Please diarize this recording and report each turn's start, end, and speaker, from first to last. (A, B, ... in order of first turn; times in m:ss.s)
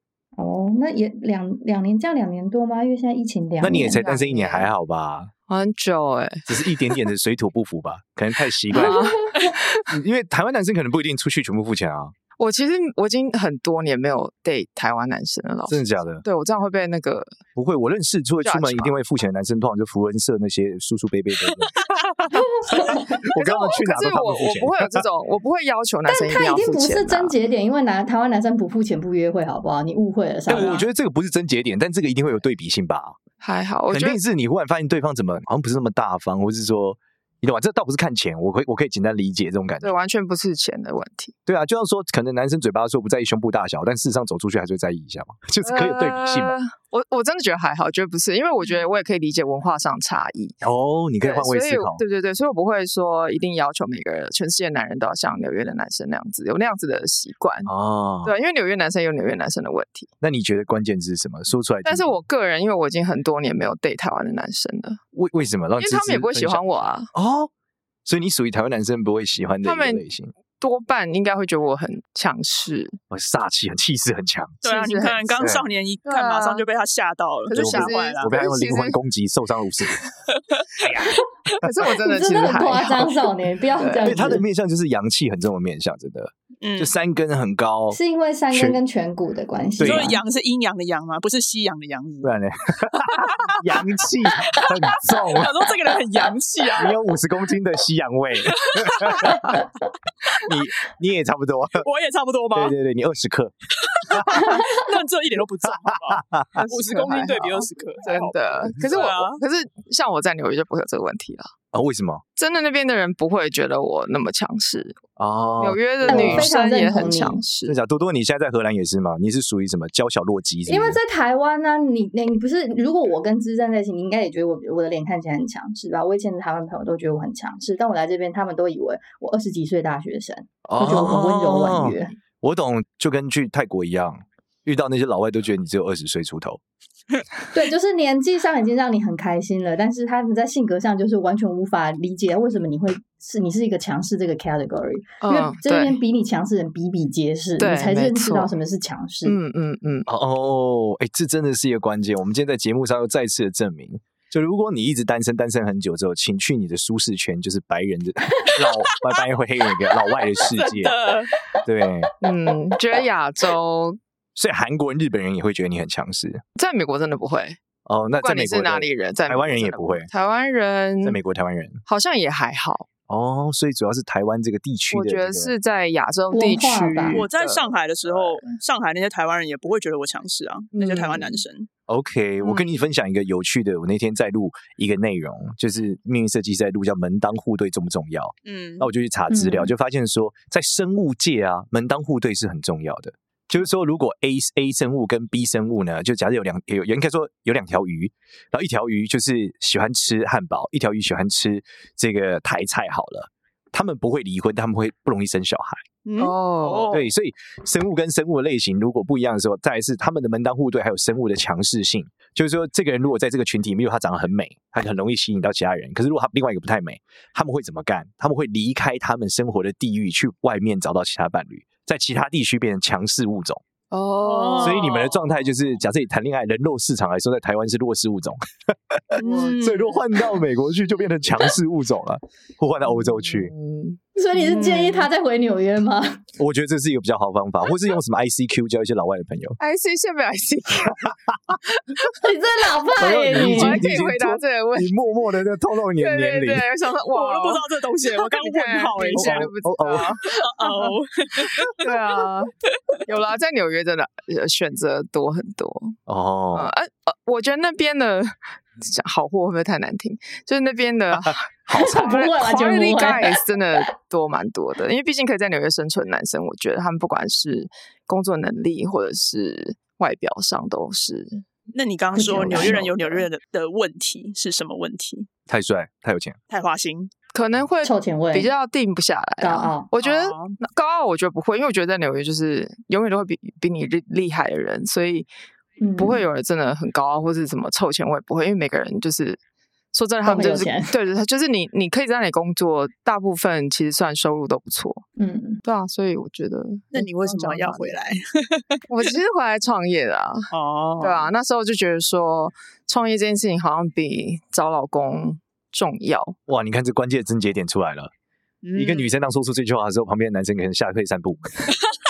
0:00.4-0:04.0 A
0:03.6-0:05.3 B
0:03.7-0:04.7 C
0:05.5-0:07.0 C
0:06.5-0:09.2 B
0:08.7-0:09.9 C
0:08.9-0:09.3 A
0:09.9-0:12.1 B
0:12.4-0:17.4 C
0:15.7-0:16.2 B
0:17.5-0:25.0 B
0:18.4-0:19.0 C
0:22.3-0:27.4 C
0:22.7-0:23.0 A
0:26.0-0:30.8 A
0:30.5-0:33.2 B
0:30.5-0:30.8 C
0:33.4-0:34.2 C
0:33.9-0:39.9 B
0:39.8-0:41.3 C
0:41.4-0:46.6 B
0:45.6-0:50.6 C
0:50.6-0:52.0 B
0:51.2-0:57.7 C
0:57.6-0:58.3 B
0:58.2-1:00.1 C
1:00.2-1:02.1 B
1:01.8-1:05.0 C
1:05.1-1:06.6 B
1:05.8-1:07.1 C
1:07.1-1:07.5 B
1:08.0-1:10.3 B
1:09.6-1:10.0 C
1:10.6-1:13.0 C
1:13.1-1:14.6 B
1:14.6-1:18.3 D
1:14.6-1:15.4 C
1:15.4-1:15.6 B
1:16.0-1:16.6 C
1:17.5-1:19.0 C
1:17.5-1:20.0 B
1:20.8-1:21.9 B
1:21.6-1:24.4 C
1:22.0-1:24.4 A
1:24.0-1:28.0 B
1:26.6-1:26.9 D
1:27.9-1:30.2 A
1:28.5-1:28.8 B
1:29.8-1:30.2 B
1:29.8-1:32.3 D
1:32.2-1:35.7 B
1:34.4-1:37.0 D
1:36.7-1:39.6 B
1:38.5-1:39.4 D
1:40.4-1:41.8 B
1:41.8-1:42.7 D
1:42.5-1:44.6 B
1:43.8-1:49.4 D
1:45.6-1:46.6 B
1:46.6-1:51.5 C
1:51.7-1:52.2 B
1:52.4-1:55.0 C
1:55.2-1:56.5 B
1:55.6-1:57.8 C
1:56.0-1:57.4 A
1:57.6-2:01.0 B
2:00.7-2:12.1 A
2:10.6-2:16.6 B
2:17.5-2:29.4 A
2:25.2-2:26.0 C
2:27.6-2:28.5 C
2:29.2-2:30.1 C
2:30.1-2:41.0 B
2:38.6-2:39.2 D
2:39.8-2:41.3 D
2:41.6-2:42.1 B
2:42.2-2:44.0 C
2:44.3-2:46.4 B
2:46.6-2:47.6 C
2:47.8-2:50.1 B
2:48.2-2:51.2 C
2:51.0-2:51.8 B
2:51.8-2:52.9 C
2:53.1-2:55.5 B
2:54.9-2:57.6 C
2:56.3-2:57.2 A
2:57.1-3:01.7 D
3:00.7-3:01.4 C
3:01.9-3:25.8 B
3:02.4-3:02.8 C
3:08.4-3:08.9 D
3:09.3-3:09.7 A
3:26.0-3:27.1 D
3:26.2-3:26.9 C
3:26.9-3:43.6 B
3:43.9-3:45.0 C
3:44.2-3:45.3 D
3:44.6-3:53.5 B
3:49.1-3:49.8 C
3:49.2-3:50.0 D
3:52.9-3:55.1 C
3:54.2-3:56.2 A
3:56.4-3:59.6 B
3:59.6-4:02.1 C
4:02.2-4:03.9 A
4:03.0-4:06.7 B
4:03.5-4:04.9 C
4:06.0-4:12.5 C
4:07.1-4:12.1 D
4:09.1-4:10.2 B
4:13.0-4:16.0 C
4:16.1-4:16.7 B
4:16.5-4:31.4 C
4:21.7-4:22.1 B
4:21.7-4:23.4 A
4:31.7-4:35.3 D
4:32.1-4:33.3 C
4:32.2-4:32.8 A
4:35.5-4:36.4 B
4:36.5-4:37.1 D
4:37.3-4:45.3 C
4:37.8-4:38.5 A
4:39.4-4:39.9 A
4:40.0-4:40.6 D
4:45.8-4:46.2 A
4:46.0-4:49.4 C
4:49.9-4:55.0 C
4:50.2-4:50.9 A
4:55.2-4:55.6 A
4:55.6-4:58.0 C
4:56.9-4:58.8 D
4:58.9-5:00.5 C
5:00.5-5:01.3 D
5:01.0-5:06.4 C
5:06.5-5:08.1 B
5:08.6-5:09.1 D
5:08.7-5:11.8 B